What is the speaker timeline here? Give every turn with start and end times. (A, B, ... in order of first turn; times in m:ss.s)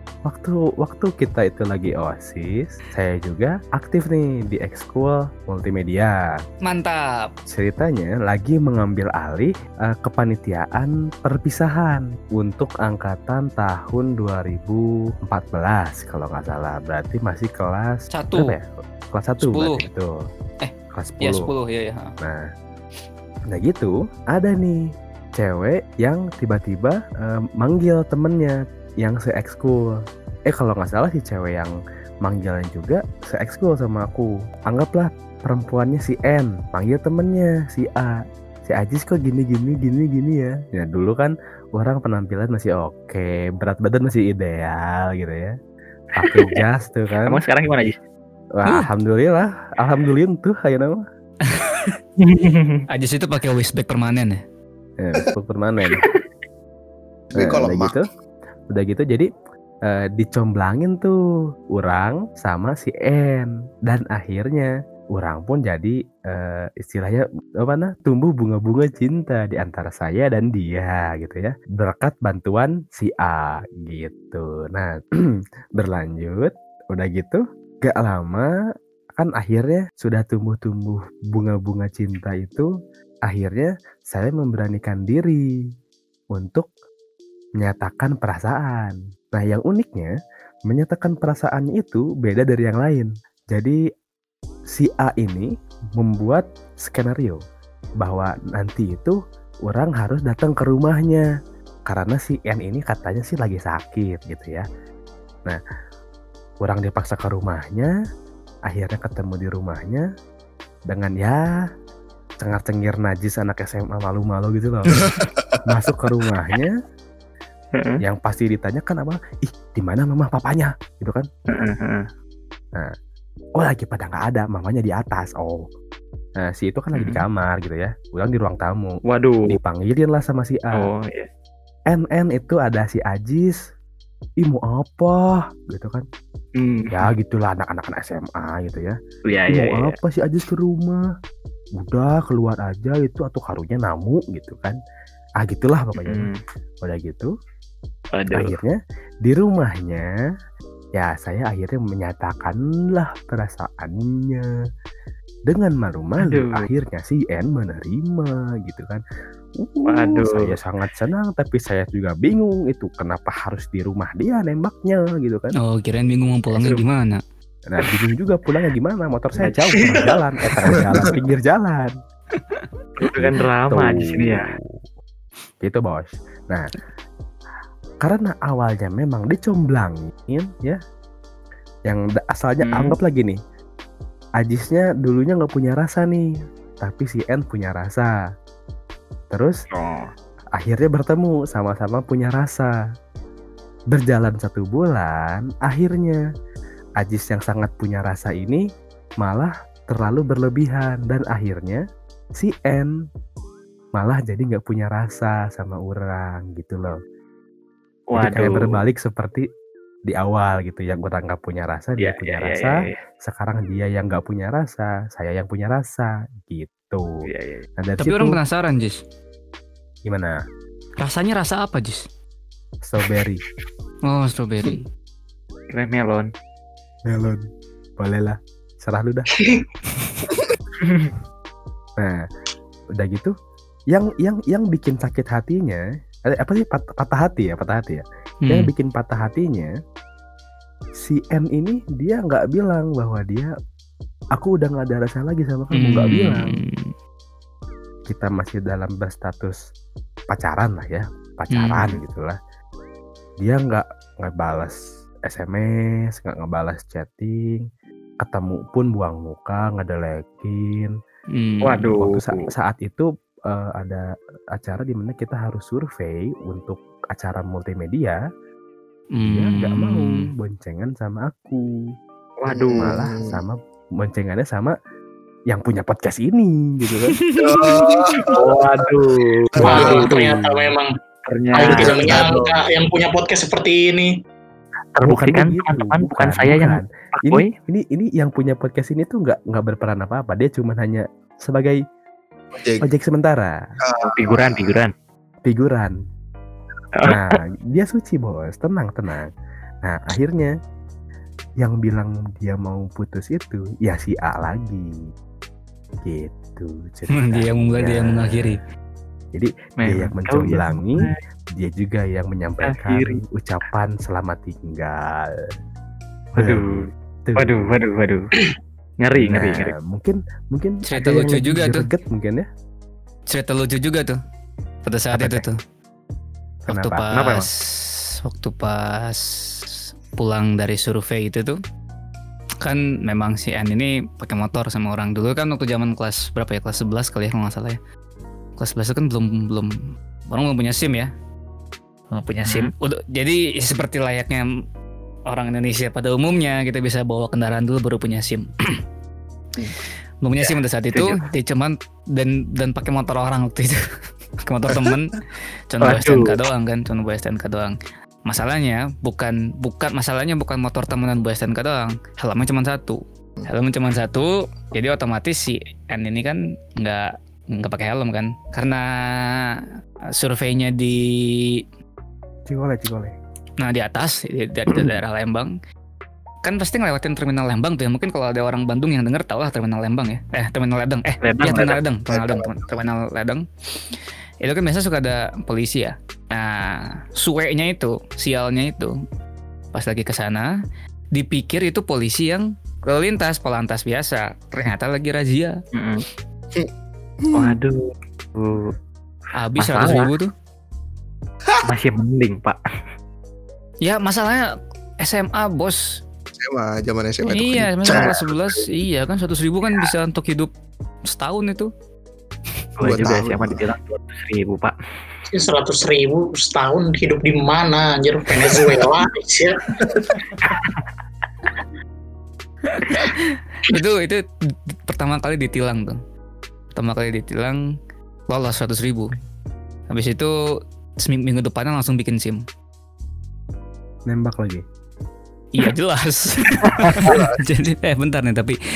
0:00.3-0:06.2 A
0:06.6-0:07.3 B
0:07.5-0:20.2 A
0:18.1-0:18.5 B
0:19.4-0:19.8 B
0:20.6-0:22.1 B
0:20.9-0:21.5 A
0:22.2-0:22.5 A
0:23.5-0:24.8 A
0:25.4-0:29.9 A
0:30.5-0:31.7 A
0:32.2-0:45.5 A
0:46.2-0:47.4 A
0:46.2-0:46.6 C
0:47.3-0:48.0 C
0:48.6-0:51.0 A
0:51.5-0:52.0 B
0:52.2-0:52.8 C
0:52.9-0:54.4 B
0:55.0-0:56.0 A
0:57.3-0:58.0 D
0:57.4-0:58.0 A
0:58.7-0:59.3 A
0:59.9-1:01.2 A
1:01.8-1:18.5 A
1:19.2-1:22.7 A
1:23.3-1:25.4 A
1:26.3-1:26.7 A
1:27.6-1:30.1 A
1:30.7-1:33.8 A
1:34.7-1:37.4 A
1:38.0-1:39.2 A
1:39.7-1:41.3 A
1:41.9-1:44.6 A
1:46.6-1:47.9 A
1:48.7-1:50.1 A
1:50.9-1:51.4 A
1:52.4-1:55.1 A
1:54.9-1:55.6 D
1:55.7-1:56.7 A
1:57.8-1:58.0 C
1:58.0-2:01.3 A
2:01.5-2:02.1 C
2:03.6-2:05.6 A
2:06.4-2:10.9 A
2:07.0-2:07.2 C
2:09.0-2:09.6 C
2:10.8-2:11.3 C
2:11.9-2:13.6 A
2:14.4-2:16.0 A
2:16.6-2:17.1 C
2:16.9-2:19.0 A
2:19.3-2:20.0 C
2:19.5-2:21.0 A
2:21.8-2:24.8 A
2:25.4-2:26.3 A
2:26.0-2:26.4 C
2:26.8-2:27.3 A
2:28.2-2:28.6 C
2:28.3-2:30.1 A
2:31.0-2:34.5 A
2:35.5-2:39.0 A
2:36.2-2:36.7 C
2:39.6-2:45.6 A
2:39.9-2:40.6 C
2:45.6-2:47.2 B
2:46.6-2:46.8 C
2:47.7-2:51.9 A
2:49.4-2:49.9 C
2:49.8-2:50.2 E
2:53.0-2:54.4 C
2:53.1-2:54.6 A
2:55.6-2:56.7 A
2:58.0-3:00.8 A
3:01.9-3:03.4 A
3:02.6-3:03.0 C
3:04.4-3:06.3 A
3:06.8-3:08.1 A
3:09.3-3:09.6 A
3:09.7-3:10.1 C
3:10.6-3:12.7 A
3:13.9-3:16.2 A
3:17.0-3:18.6 A
3:19.2-3:21.8 A
3:22.4-3:22.9 A
3:24.0-3:27.0 A
3:28.1-3:28.8 C
3:28.2-3:29.4 A
3:30.1-3:37.1 A
3:32.0-3:33.0 C
3:37.3-3:37.6 C
3:37.8-3:38.4 A
3:38.0-3:39.0 B
3:40.1-3:40.4 A
3:41.0-3:42.0 B
3:42.8-3:43.4 A
3:44.1-3:44.9 B
3:45.7-3:46.3 C
3:47.1-3:47.4 A
3:48.0-3:49.5 A
3:49.4-3:49.6 E
3:50.8-3:51.1 C
3:53.0-3:53.3 A
3:53.9-3:59.7 A
4:01.0-4:03.5 A
4:04.4-4:06.5 A
4:05.7-4:06.9 B
4:08.1-4:09.6 A
4:10.3-4:12.4 A
4:11.5-4:12.0 B
4:13.4-4:17.6 A
4:18.2-4:20.9 A
4:21.4-4:21.8 B
4:21.6-4:22.4 C
4:21.8-4:28.2 A
4:29.2-4:30.3 B
4:29.2-4:31.6 A
4:32.4-4:33.0 C
4:32.5-4:33.4 D
4:32.8-4:34.7 A
4:35.5-4:37.2 A
4:37.2-4:38.0 B
4:37.4-4:38.9 D
4:38.3-4:40.2 C
4:39.6-4:40.2 D
4:39.6-4:40.4 A
4:39.6-4:40.9 E
4:41.3-4:42.4 C
4:41.5-4:44.1 E
4:41.6-4:42.6 D
4:45.0-4:47.5 C
4:45.0-4:51.8 A
4:52.5-4:52.8 D
4:52.8-4:53.6 A
4:53.8-4:54.8 D
4:54.0-4:54.9 C
4:55.4-4:55.9 A
4:57.0-4:57.4 C
4:57.1-4:59.3 A
4:59.8-5:00.5 A
5:01.6-5:04.9 A
5:06.0-5:08.6 A
5:07.1-5:08.6 B
5:09.3-5:15.5 A
5:09.8-5:11.2 C
5:12.6-5:13.2 C
5:16.4-5:18.4 C
5:16.4-5:17.8 A
5:19.0-5:19.7 C
5:19.2-5:22.5 A
5:20.9-5:21.9 B
5:23.3-5:24.2 B
5:24.9-5:25.6 B
5:25.1-5:25.4 A
5:26.6-5:27.1 A
5:26.7-5:31.6 B
5:27.1-5:27.5 C
5:32.6-5:37.8 B
5:38.6-5:39.8 B
5:40.3-5:41.1 B
5:42.1-5:44.5 B
5:42.4-5:42.7 C
5:45.3-5:48.8 B
5:50.2-5:53.8 B
5:50.9-5:51.2 C
5:54.5-5:57.8 B
5:55.8-5:56.3 C
5:58.3-6:09.6 B
6:10.2-6:11.6 B
6:12.5-6:13.2 A
6:13.6-6:15.5 B
6:16.4-6:23.5 B
6:21.2-6:21.8 C
6:22.1-6:22.6 D
6:24.4-6:29.0 B
6:29.7-6:30.5 B
6:31.1-6:35.6 B
6:35.7-6:36.0 C
6:37.2-6:37.6 D
6:37.3-6:38.7 C
6:39.4-6:40.3 B
6:39.6-6:40.1 C
6:41.6-6:42.6 C
6:43.8-6:45.8 B
6:46.4-6:48.6 D
6:47.3-6:50.5 B
6:51.1-6:51.7 B
6:52.8-6:54.8 C
6:52.8-6:53.7 D
6:55.3-6:59.6 E
6:59.8-7:00.2 D
7:00.4-7:00.9 C
7:02.7-7:04.2 B
7:04.9-7:06.0 B
7:06.8-7:07.6 B
7:08.3-7:09.2 B
7:09.9-7:10.4 B
7:11.0-7:12.4 B
7:14.1-7:14.6 A
7:15.5-7:18.6 B
7:16.8-7:17.2 C
7:17.1-7:17.4 D